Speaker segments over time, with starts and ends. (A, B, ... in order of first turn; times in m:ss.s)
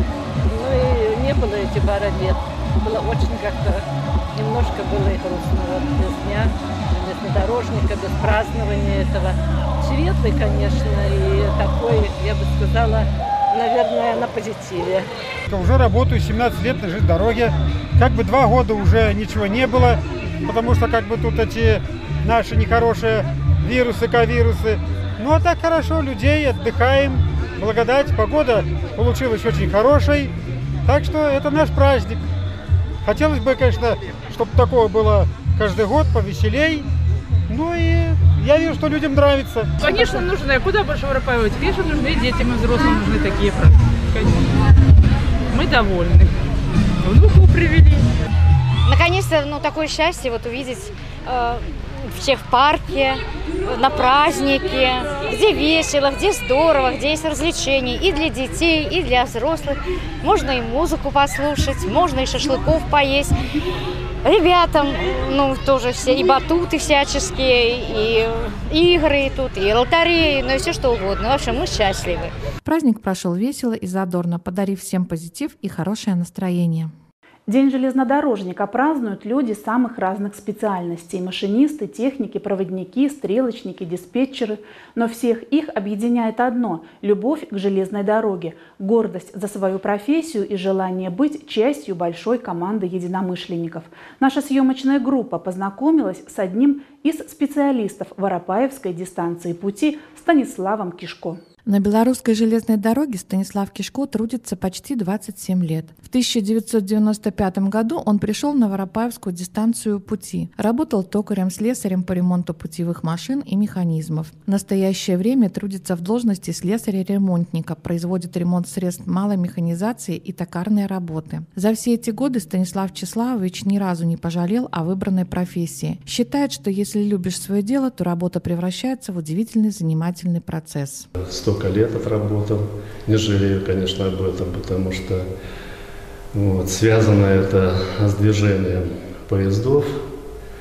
0:00.4-0:15.1 A
0:15.5-0:30.3 B
0:30.8-0:32.2 B
0:33.0-0:36.8 B
0:37.5-0:39.7 B
0:39.8-0:44.4 C
0:45.5-0:46.3 C
0:47.0-0:48.1 C
0:48.8-1:03.3 D
1:04.2-1:12.3 D
1:12.6-1:16.9 E
1:17.5-1:41.4 F
1:41.6-2:11.1 E
2:11.2-2:15.3 G
2:16.3-2:20.1 G